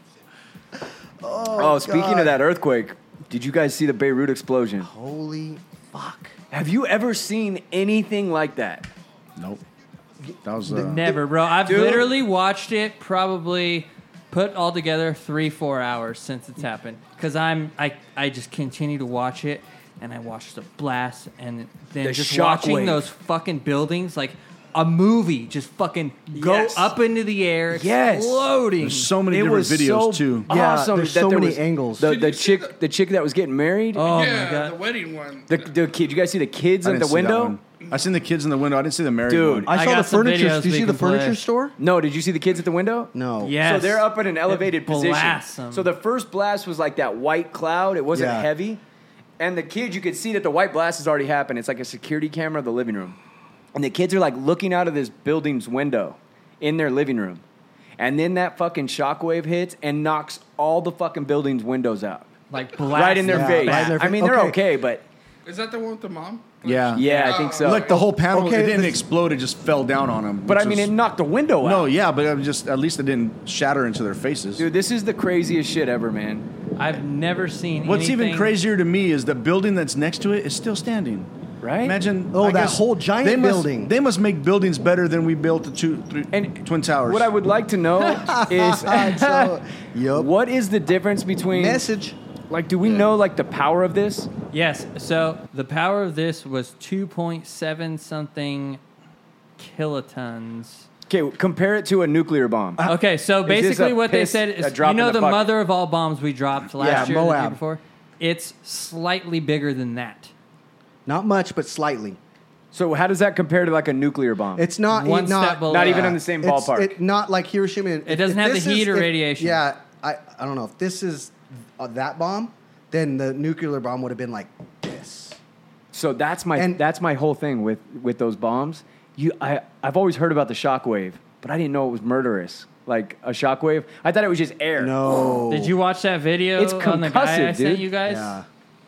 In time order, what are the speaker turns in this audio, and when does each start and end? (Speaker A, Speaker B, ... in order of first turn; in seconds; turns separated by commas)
Speaker A: 1.2-2.4, Speaker B: 1.6-4.9, Speaker A: 4.8-6.3, Speaker B: 6.5-8.9, Speaker C: 9.4-9.6, Speaker C: 10.4-11.1, Speaker D: 10.6-29.1, Speaker B: 11.6-12.1, Speaker B: 22.0-23.1, Speaker B: 26.3-26.8, Speaker B: 27.7-28.5, Speaker C: 28.8-30.5, Speaker B: 29.2-34.0, Speaker A: 30.5-32.1, Speaker E: 32.0-32.8, Speaker D: 33.9-34.8, Speaker E: 34.0-35.7, Speaker B: 35.5-37.6, Speaker C: 36.8-39.7, Speaker B: 39.2-39.7, Speaker A: 39.7-41.7, Speaker D: 39.7-41.4, Speaker B: 41.8-48.8, Speaker A: 43.1-43.6, Speaker D: 43.4-45.9, Speaker A: 48.1-48.5, Speaker B: 49.4-53.2, Speaker B: 53.7-57.4, Speaker B: 58.0-65.0, Speaker D: 62.5-64.0, Speaker A: 63.3-64.6, Speaker E: 65.5-68.0, Speaker C: 66.6-70.9, Speaker B: 67.0-68.0, Speaker D: 67.0-67.5, Speaker A: 68.3-69.0, Speaker B: 70.5-71.9, Speaker C: 71.6-74.7, Speaker B: 74.6-76.5, Speaker D: 76.8-78.5, Speaker C: 77.8-81.3, Speaker B: 81.6-82.0, Speaker C: 81.8-87.3, Speaker A: 82.3-83.9, Speaker B: 86.3-89.6, Speaker A: 88.1-90.3, Speaker B: 90.1-91.8, Speaker A: 91.5-92.2, Speaker B: 92.5-94.3, Speaker D: 94.5-98.8, Speaker D: 99.6-100.8, Speaker B: 101.1-102.8, Speaker D: 102.8-110.3, Speaker B: 103.4-105.5, Speaker A: 106.8-107.6, Speaker B: 106.8-107.1, Speaker A: 111.0-112.2, Speaker B: 112.7-114.7, Speaker A: 114.5-125.4, Speaker D: 114.9-116.2, Speaker B: 115.7-117.0, Speaker D: 118.0-119.6, Speaker B: 125.9-135.4, Speaker A: 126.5-126.8, Speaker A: 134.8-135.8, Speaker D: 135.5-138.4, Speaker B: 136.6-137.9, Speaker A: 138.0-138.4